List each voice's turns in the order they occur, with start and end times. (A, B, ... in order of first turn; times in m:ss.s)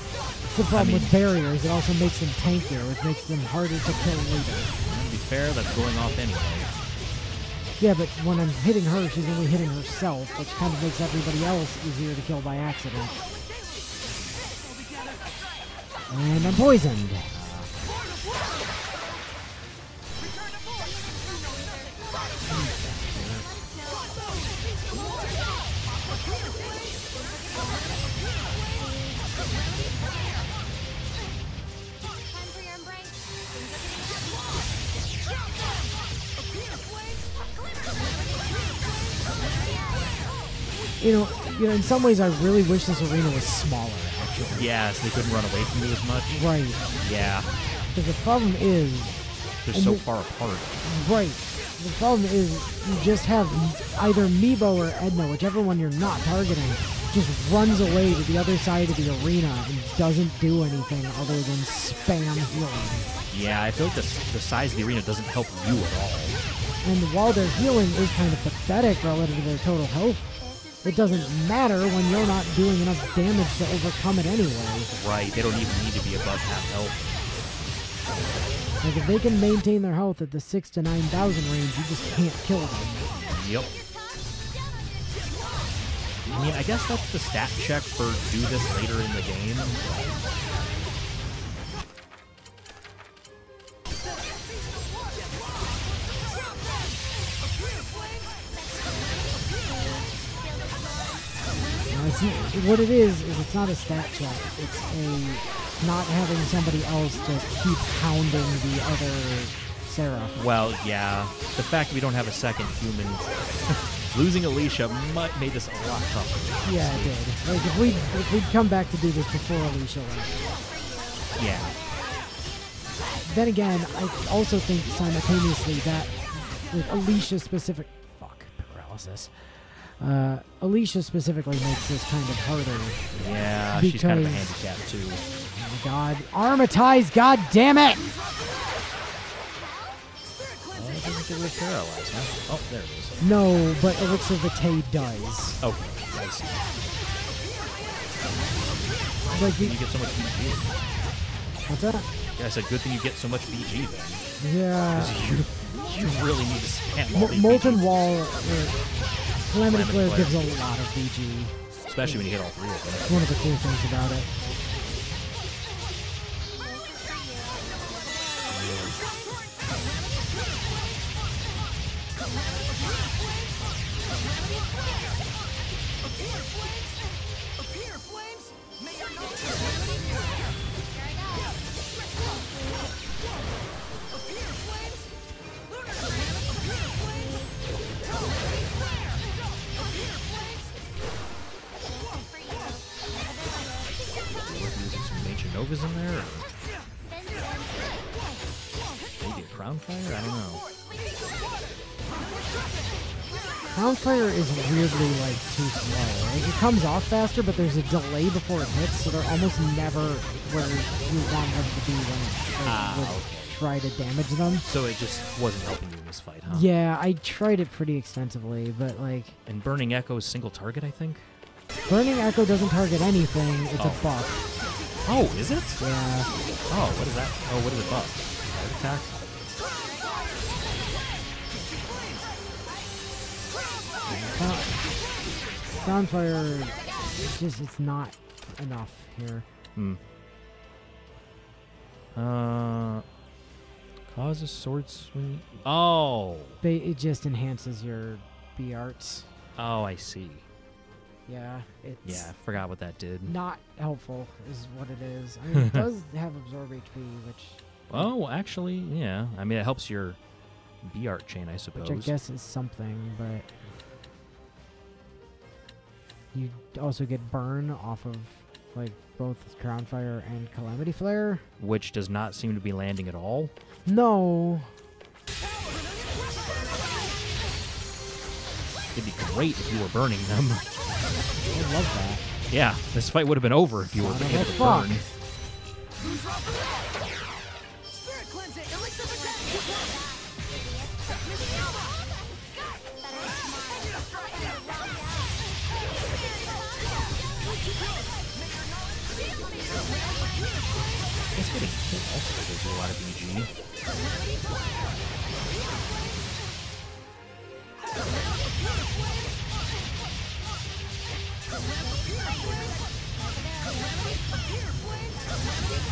0:00.5-0:04.7 A
0:00.7-0:01.1 B
0:04.8-0:06.7 B
0:07.8-0:13.2 A
0:16.1-0:17.3 A
0:16.3-0:16.7 B
0:17.3-0:17.8 B
0:22.5-0:23.4 A
0:41.0-0:44.7 A
0:44.5-0:46.4 B
0:46.3-0:46.8 A
0:47.0-0:47.5 B
0:47.9-0:49.2 A
0:49.6-0:50.7 B
0:49.7-0:50.0 A
0:50.8-1:03.1 A
1:03.3-1:06.4 B
1:06.8-1:14.9 A
1:14.9-1:17.0 B
1:18.8-1:23.1 A
1:23.2-1:23.7 B
1:26.3-1:30.2 B
1:41.9-1:50.4 A
1:50.4-1:57.2 B
1:56.6-2:00.5 A
2:01.4-2:01.8 B
2:03.2-2:13.2 A
2:13.1-2:15.2 B
2:13.7-2:14.5 A
2:15.5-2:18.1 A
2:20.7-2:23.2 B
2:23.2-2:25.6 A
2:25.6-2:26.7 B
2:29.3-2:30.7 B
2:29.3-2:29.7 A
2:31.7-2:32.1 A
2:32.4-2:34.3 B
2:34.4-2:35.1 A
2:34.9-2:37.8 B
2:37.1-2:38.8 A
2:39.5-2:42.2 A
2:39.6-2:40.4 B
2:41.9-2:43.2 B
2:43.0-2:44.3 A
2:48.5-2:49.0 B
3:14.4-3:16.5 B
3:19.2-3:20.6 B
3:23.7-3:34.6 A
3:32.6-3:33.6 B
3:34.6-3:36.7 B
3:36.5-3:39.4 A
3:39.4-3:41.3 B
3:41.9-3:44.4 A
3:45.0-3:45.8 B
3:45.8-3:46.3 A
3:46.7-3:49.2 B
3:54.1-3:54.8 A
3:55.7-3:59.4 A
4:02.1-4:03.0 B
4:04.1-4:06.6 B
4:06.6-4:09.3 A
4:09.6-4:10.4 B
4:11.3-4:12.3 A
4:12.0-4:13.3 B
4:13.2-4:18.1 A
4:15.5-4:15.8 B
4:17.9-4:20.2 B
4:20.8-4:22.1 B
4:21.8-4:23.5 A
4:26.3-4:31.4 A
4:31.6-4:33.5 B
4:33.8-4:34.7 A
4:38.9-4:40.6 B
4:41.5-4:42.2 A
4:42.5-4:45.0 B
4:43.9-4:45.0 A
5:01.3-5:03.5 B